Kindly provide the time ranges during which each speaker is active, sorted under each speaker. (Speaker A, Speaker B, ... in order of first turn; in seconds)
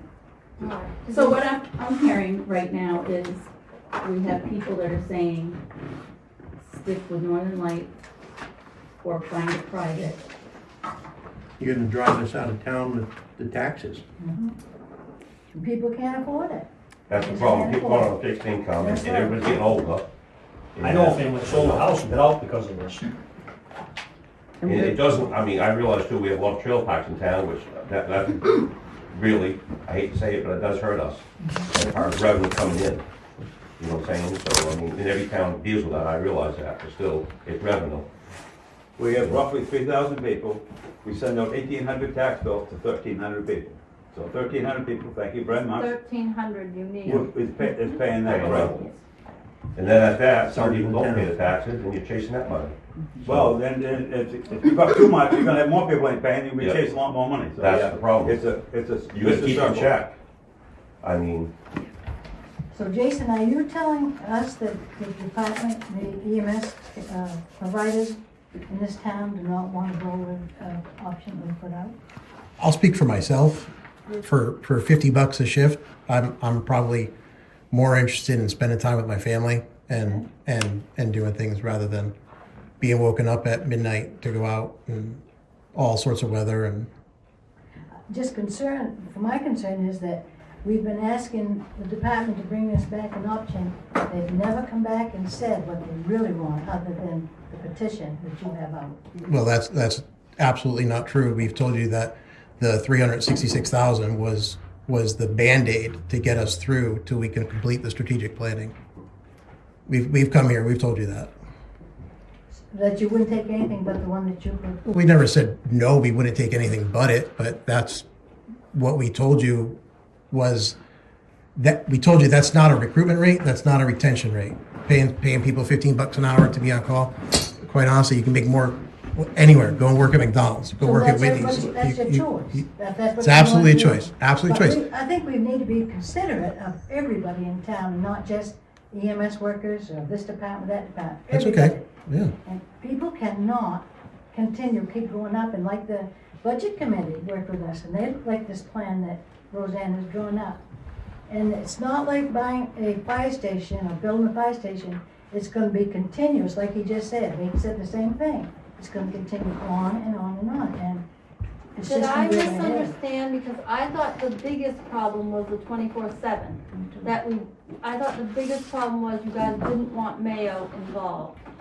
Speaker A: 0.6-1.4, 45.7-47.3, 48.3-48.9, 161.8-171.3
Speaker B: 1.1-3.5, 4.0-5.6, 6.7-7.9, 9.0-10.2
Speaker C: 11.6-14.0, 50.4-51.3
Speaker D: 14.2-14.5, 15.5-18.2, 18.8-19.7, 62.7-68.2, 68.7-71.9, 79.9-80.2, 88.1-99.2, 112.7-114.8, 130.8-141.9, 142.4-150.6, 151.3-161.0, 161.8-162.9, 166.8-167.0
Speaker E: 17.1-20.1, 20.7-21.9, 24.6-33.0, 33.8-38.0, 39.1-39.4, 48.2-48.8, 49.7-52.7, 53.2-53.5, 56.6-56.9, 57.5-58.4, 59.1-60.1, 61.0-61.5
Speaker F: 20.8-23.0
Speaker G: 39.0-45.9, 47.0-48.7, 53.2-59.9
Speaker H: 72.6-77.1, 77.7-82.1, 82.8-85.2, 85.7-86.9, 99.2-108.7, 109.9-111.3, 114.8-118.0, 118.7-119.8, 120.3-120.8, 121.5-132.6, 133.2-134.8, 141.3-142.3